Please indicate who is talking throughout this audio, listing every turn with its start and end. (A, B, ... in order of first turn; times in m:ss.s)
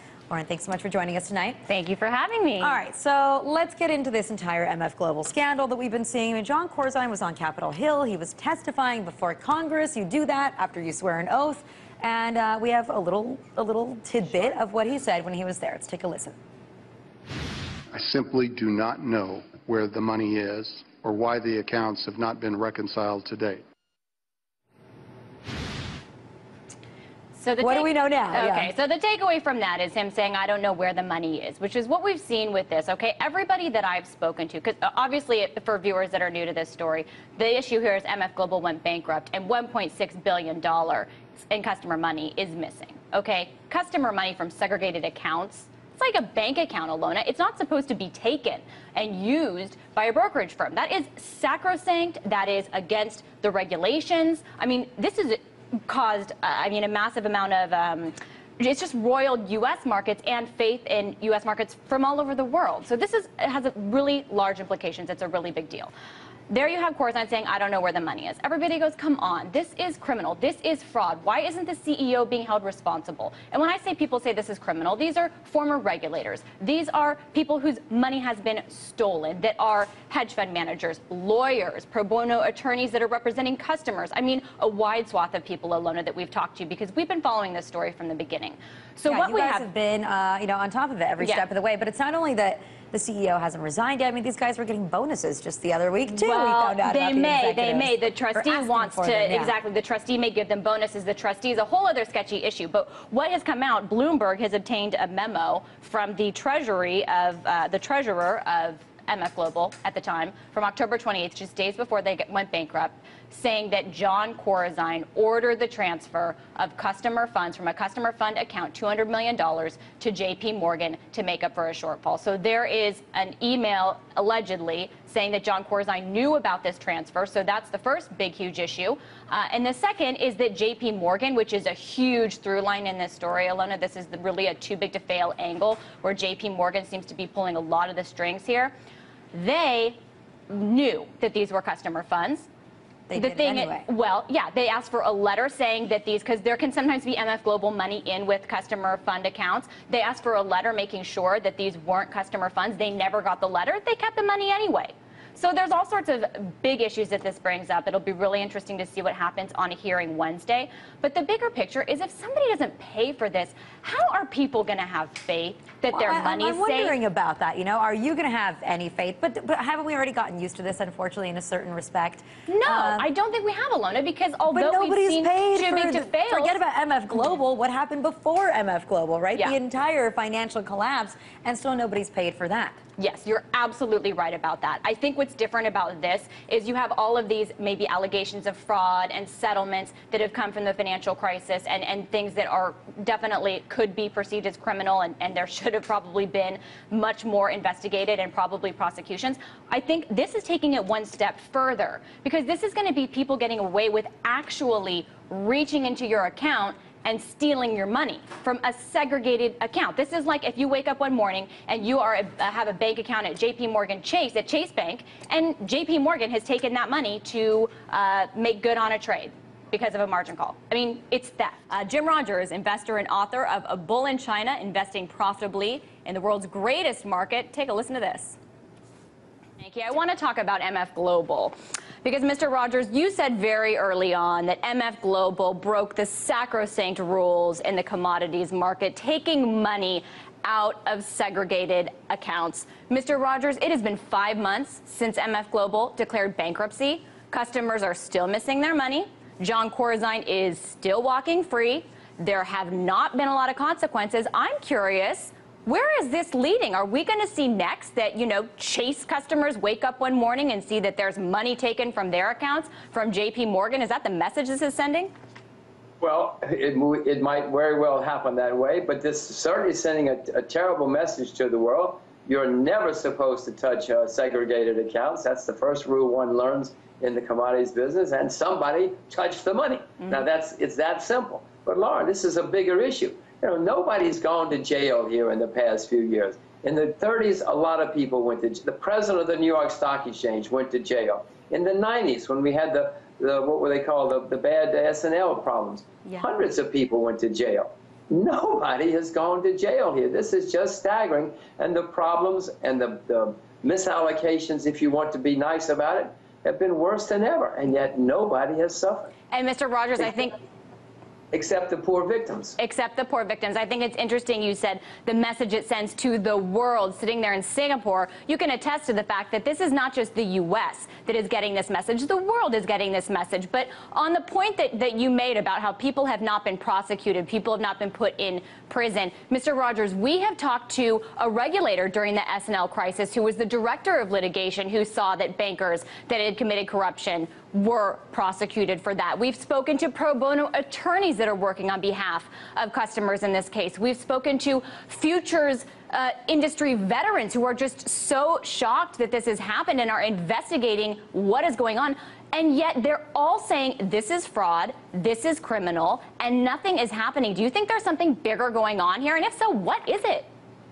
0:00.3-0:01.6 A
0:01.6-0:02.8 B
0:02.6-0:16.4 A
0:17.9-0:23.6 C
0:27.3-1:05.9 B
0:27.6-0:28.7 A
1:06.5-1:29.6 B
1:29.0-1:39.5 A
1:36.1-2:18.7 B
2:19.3-2:22.5 B
2:23.1-2:23.8 A
2:23.1-2:47.0 B
2:45.9-2:53.1 A
2:52.5-2:56.6 B
2:54.5-3:02.8 A
3:03.0-3:48.4 B
3:49.6-4:25.1 B
4:26.0-5:09.1 D
5:09.3-5:10.4 B
5:11.3-5:12.6 D
5:12.6-6:00.3 B